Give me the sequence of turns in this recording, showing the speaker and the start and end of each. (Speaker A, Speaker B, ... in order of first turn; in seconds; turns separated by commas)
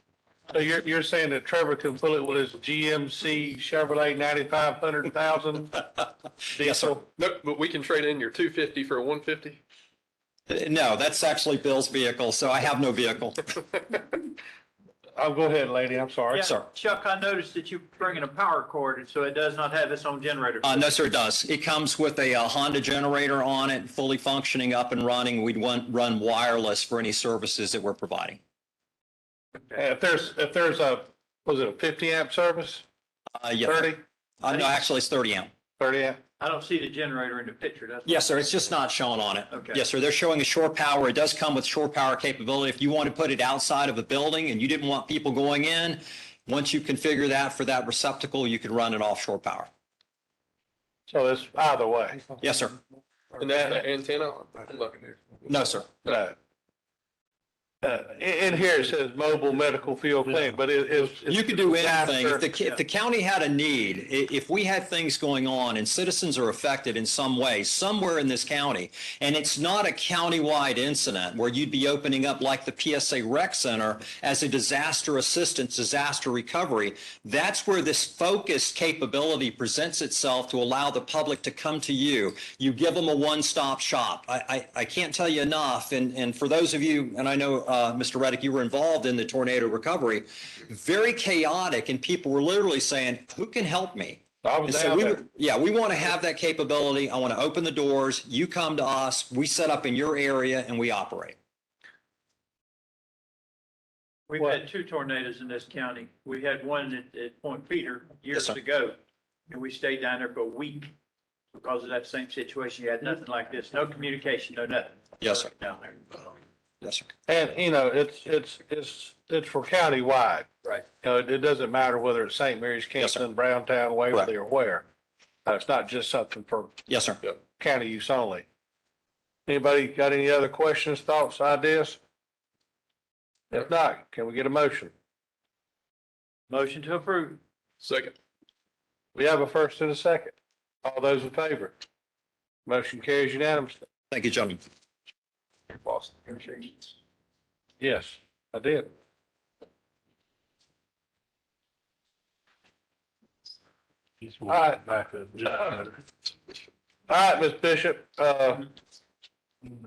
Speaker A: 0.5-5.8, Speaker A: 6.5-7.1, Speaker B: 6.6-6.9, Speaker C: 7.2-9.6, Speaker B: 10.5-13.4, Speaker A: 15.2-16.4, Speaker D: 16.3-20.9, Speaker B: 16.4-16.7, Speaker B: 20.6-28.4, Speaker A: 29.7-32.9, Speaker B: 33.4-35.5, Speaker A: 33.6-34.0, Speaker D: 34.5-34.8, Speaker A: 35.8-36.2, Speaker D: 36.4-38.3, Speaker B: 38.1-49.7, Speaker D: 39.5-39.8, Speaker A: 51.1-52.3, Speaker B: 52.4-52.8, Speaker C: 53.4-55.5, Speaker A: 53.5-53.8, Speaker B: 55.5-55.9, Speaker A: 56.1-56.4, Speaker A: 57.8-62.5, Speaker B: 61.3-101.4, Speaker A: 94.4-95.2, Speaker D: 104.3-109.0, Speaker D: 109.5-110.9, Speaker D: 111.5-116.3, Speaker B: 115.2-115.5, Speaker B: 116.8-117.1, Speaker A: 117.3-120.5, Speaker A: 121.0-124.8, Speaker A: 125.5-126.8, Speaker B: 126.9-127.2, Speaker A: 127.6-128.4, Speaker A: 129.5-132.0, Speaker A: 133.5-134.9, Speaker D: 136.5-137.4, Speaker C: 137.8-138.2, Speaker A: 139.2-141.8, Speaker A: 142.7-143.8, Speaker B: 144.1-144.6, Speaker C: 145.8-146.7, Speaker A: 147.8-148.9, Speaker A: 154.5-155.9, Speaker A: 157.1-158.7